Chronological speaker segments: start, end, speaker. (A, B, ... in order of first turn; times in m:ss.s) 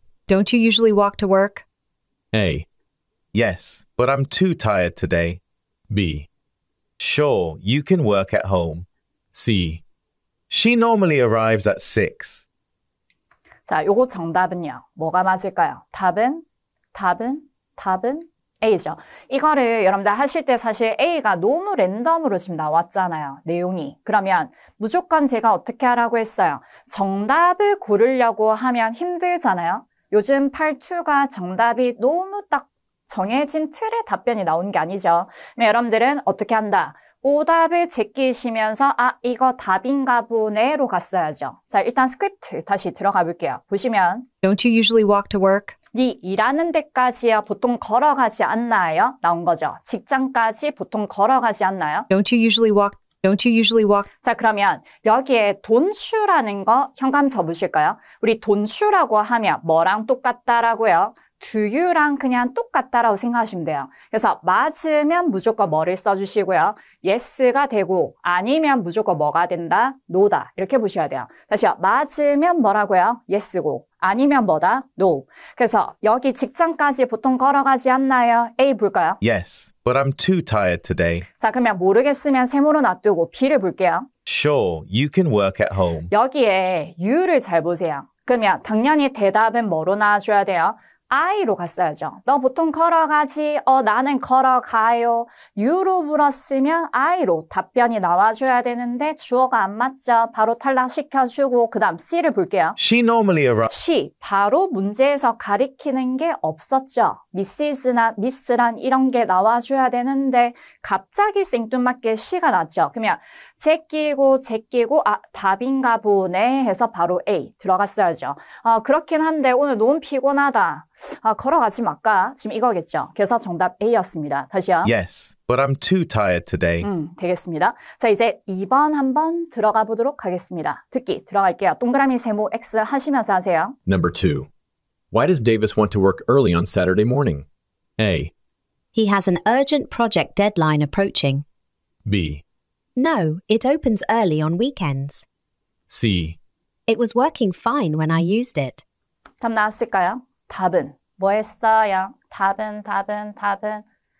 0:00.3-0:01.6 A
0:02.3-0:02.6 B
0:03.3-0:05.4 C
0:05.9-0:06.3 B
0:07.0-0:08.9 C
0:09.3-0:09.8 B
0:10.5-0:12.4 C
0:13.7-0:44.3 D
0:44.4-0:45.8 A
0:45.9-0:52.1 D
0:52.1-0:54.1 A
0:54.2-1:19.2 D
1:19.2-1:21.3 C
1:21.4-1:24.1 D
1:24.3-1:26.1 C
1:26.1-1:42.8 D
1:42.8-1:43.7 C
1:43.7-2:04.9 D
2:04.8-2:06.9 C
2:06.8-2:13.8 D
2:13.9-2:14.5 B
2:15.1-2:17.4 B
2:18.0-2:18.3 B
2:18.9-2:21.4 E
2:22.1-2:22.4 B
2:23.0-2:25.2 E
2:25.9-2:26.4 B
2:26.9-2:28.8 E
2:29.4-2:33.8 D